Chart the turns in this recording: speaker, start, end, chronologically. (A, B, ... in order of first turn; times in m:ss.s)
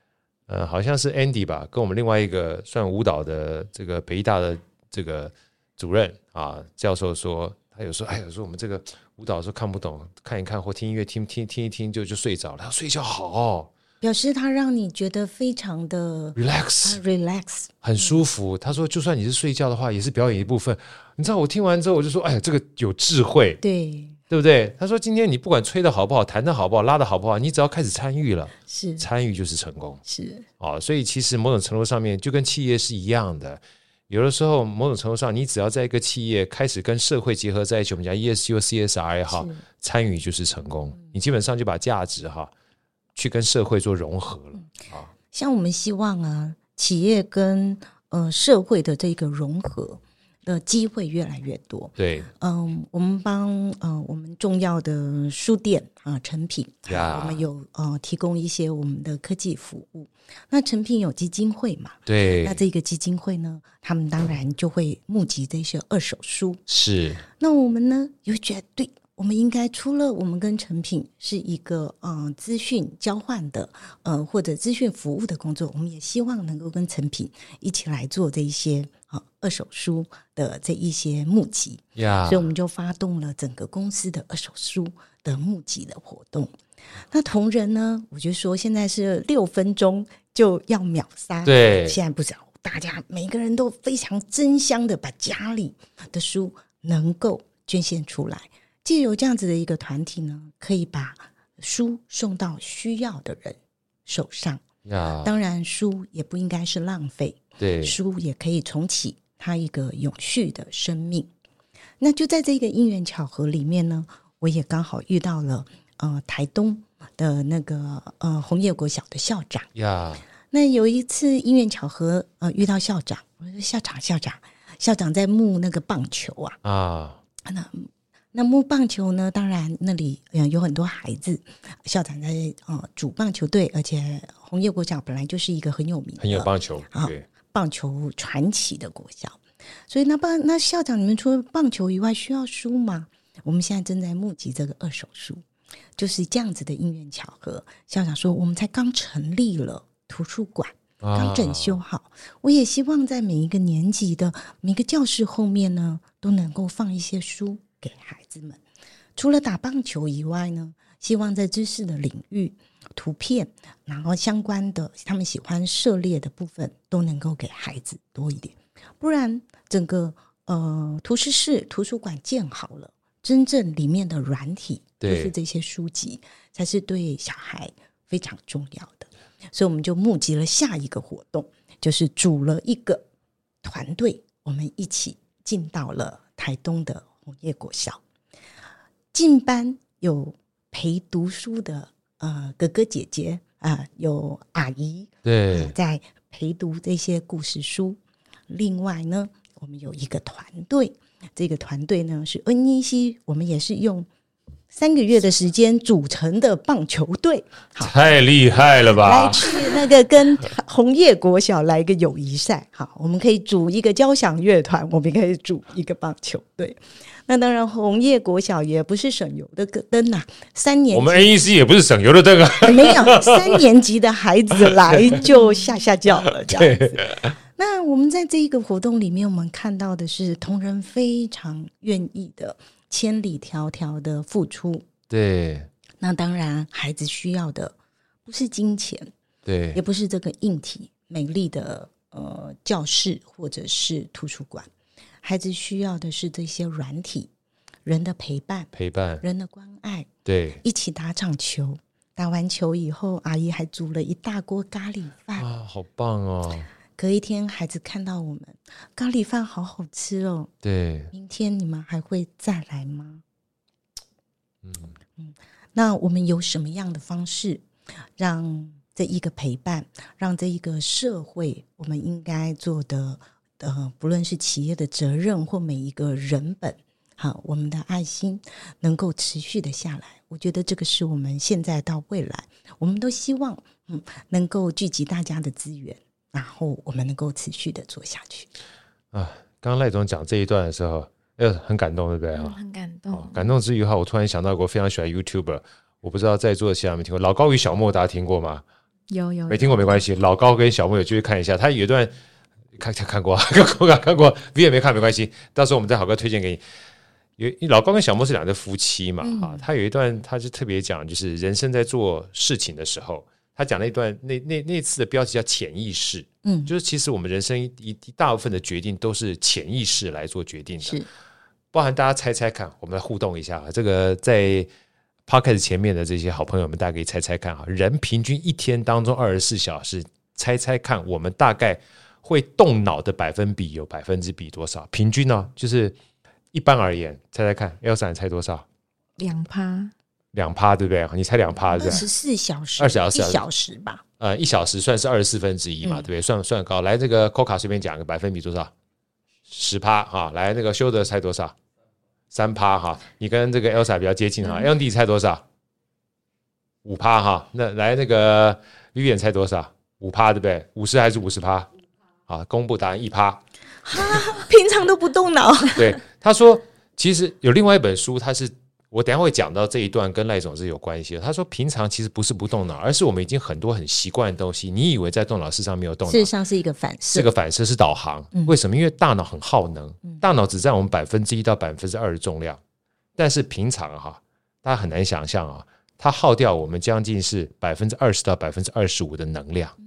0:00.5-0:13.7 A
0:14.0-0:18.2 B
0:16.4-0:17.0 A
0:17.8-0:23.6 A
0:23.6-0:24.2 B
0:24.3-0:30.0 A
0:28.7-0:29.0 B
0:30.1-0:30.5 B
0:30.6-0:42.5 A
0:39.3-0:39.6 B
0:43.2-0:45.1 A
0:45.3-1:06.6 B
0:52.0-0:52.3 A
0:56.9-0:57.4 A
1:02.1-1:02.6 A
1:06.7-1:07.2 A
1:07.3-1:26.5 B
1:22.0-1:22.5 A
1:27.1-1:44.6 B
1:31.4-1:32.0 A
1:44.8-1:45.3 A
1:45.2-1:51.3 B
1:47.6-1:48.0 A
1:52.0-1:59.7 B
1:59.8-2:00.2 A
2:00.5-2:06.6 B
2:06.6-2:07.2 A
2:07.4-2:25.4 B
2:16.2-2:17.2 A
2:26.0-2:38.6 B
2:31.0-2:31.8 A
2:39.2-3:03.0 B
2:55.0-2:55.3 A
3:03.6-3:08.0 B
3:09.1-3:24.1 B
3:15.2-3:15.7 A
3:24.7-3:28.1 B
3:27.8-3:29.6 A
3:28.9-3:41.3 B
3:40.9-3:43.6 A
3:42.6-3:54.9 B
3:44.6-3:45.2 A
3:46.3-3:47.4 A
3:55.1-3:55.7 A
3:56.0-3:57.8 B
3:58.3-3:59.1 B
3:59.5-3:59.8 A
3:59.7-4:04.7 B
4:05.2-4:07.3 B
4:07.8-4:08.7 B
4:08.7-4:09.2 A
4:09.2-4:10.1 B
4:10.2-4:10.6 A
4:10.6-4:15.5 B
4:15.4-4:16.7 A
4:17.0-4:20.5 B
4:20.6-4:21.1 A
4:21.1-4:23.2 B
4:24.6-4:24.9 A
4:25.2-4:27.6 B
4:28.2-4:48.5 B
4:49.1-4:52.6 A
4:52.3-4:53.5 C
4:53.1-4:58.6 A
4:59.1-5:00.0 C
4:59.5-5:02.1 A
5:02.8-5:06.6 A
5:07.4-5:21.0 A
5:09.2-5:09.6 B
5:16.4-5:16.7 B
5:21.7-5:24.7 A
5:25.3-5:36.0 A
5:36.5-5:38.6 A
5:39.2-5:39.9 C
5:40.3-5:42.1 A
5:41.7-5:44.0 B
5:42.8-5:43.4 A
5:44.2-5:48.7 A
5:49.5-5:51.6 A
5:52.3-5:55.4 A
5:56.8-6:01.7 A
6:02.3-6:03.4 A
6:03.8-6:06.0 B
6:05.8-6:16.3 A
6:16.1-6:17.3 B
6:17.1-6:22.6 A
6:23.2-6:29.8 A